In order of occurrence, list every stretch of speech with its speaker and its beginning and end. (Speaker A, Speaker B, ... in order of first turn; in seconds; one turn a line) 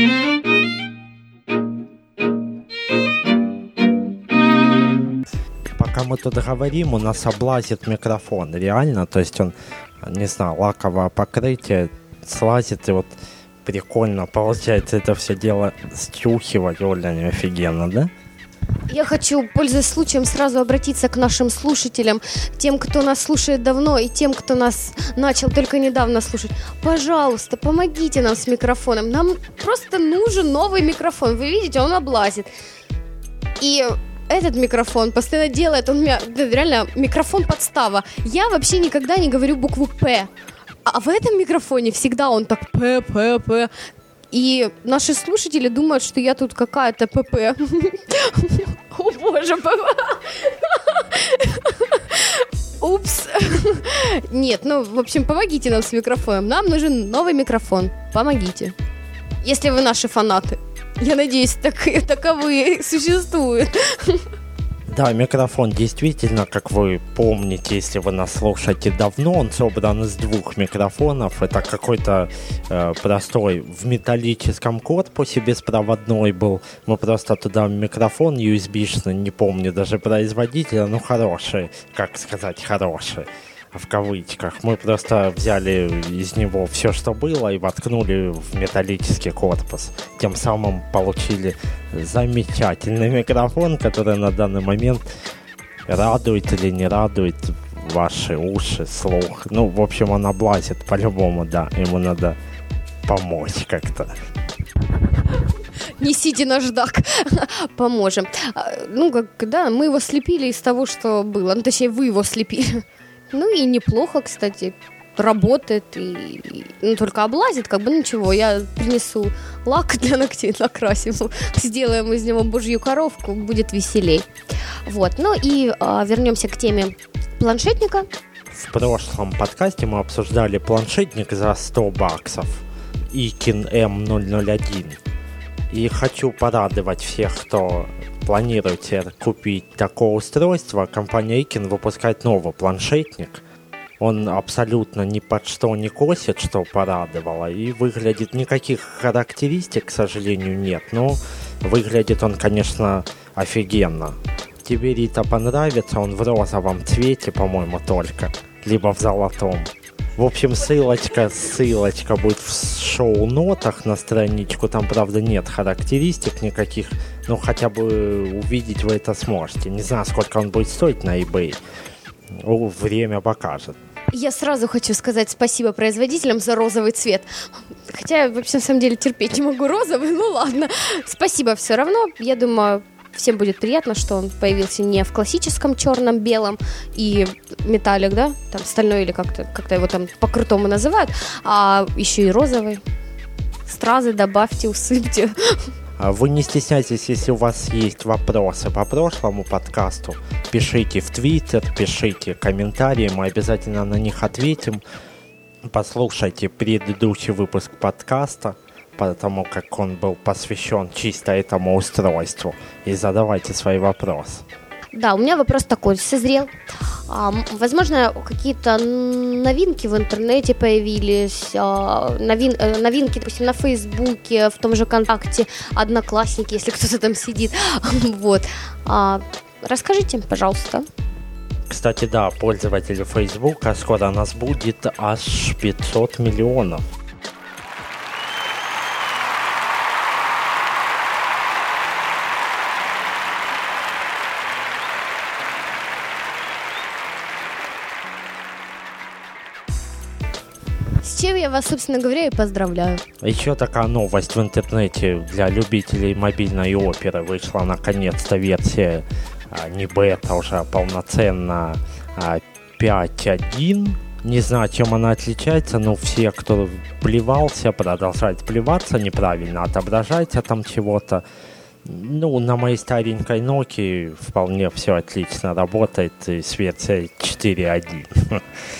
Speaker A: 5.8-18.1
Speaker B: 18.9-32.5
Speaker B: 33.6-40.3
Speaker B: 40.9-43.7
Speaker B: 44.3-58.8
Speaker B: 59.4-64.2
Speaker A: 64.9-95.1
Speaker A: 95.9-102.4
Speaker A: 103.0-104.1
Speaker B: 106.0-124.3
Speaker B: 124.8-128.1
Speaker A: 128.5-135.0
Speaker A: 135.7-143.4
Speaker A: 144.0-171.6
Speaker A: 172.4-173.8
Speaker B: 174.1-192.8
Speaker B: 193.7-195.6
Speaker A: 196.0-204.8
Speaker A: 205.7-214.4
Speaker B: 214.9-216.5
Speaker B: 217.1-230.9
Speaker A: 231.7-236.8
Speaker B: 251.0-253.0
Speaker A: 253.2-271.2
Speaker A: 271.8-278.4